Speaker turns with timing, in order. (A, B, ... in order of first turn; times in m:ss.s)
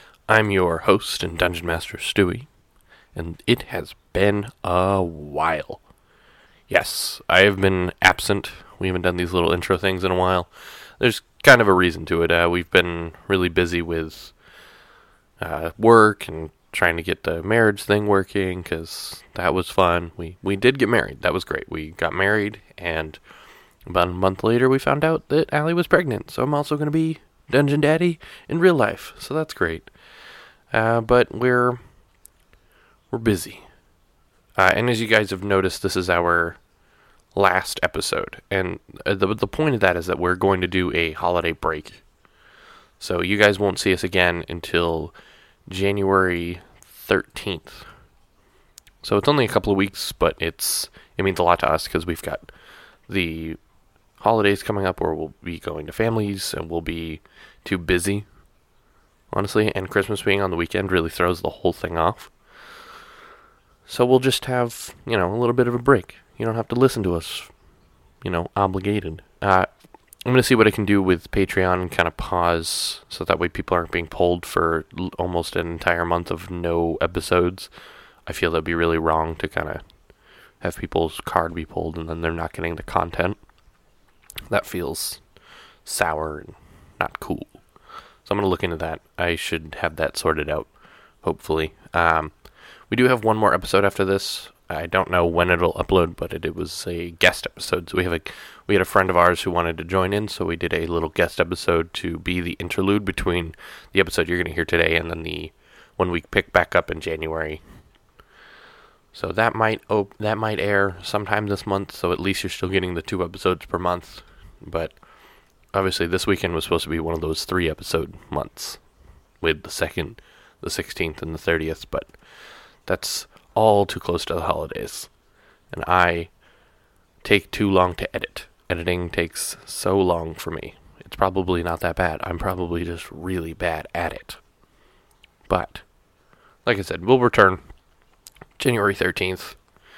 0:00.3-0:02.5 A
0:03.2-0:05.8 A
0:06.7-0:14.3 A
0:15.4-0:23.2 A
0:23.9-0:29.9 A
0:30.7-0:31.8 A
0:33.1-0:33.7 A
0:34.6-0:36.6 A
0:37.4-0:42.0 A
0:43.0-0:45.2 A
0:45.7-0:47.8 A
0:49.0-0:52.5 A
0:53.1-0:53.6 A
0:54.2-0:58.3 A
0:59.3-1:02.3 A
1:03.9-1:07.5 A
1:08.2-1:09.7 A
1:10.2-1:17.7 A
1:18.3-1:19.8 A
1:20.6-1:23.4 A
1:24.5-1:25.2 A
1:25.8-1:27.6 A
1:28.2-1:47.6 A
1:49.1-1:55.0 A
1:55.7-1:58.8 A
1:59.4-2:02.2 A
2:02.8-2:05.1 A
2:05.7-2:06.3 A
2:07.2-2:14.4 A
2:15.5-2:15.8 A
2:16.6-2:17.6 A
2:18.6-2:19.6 A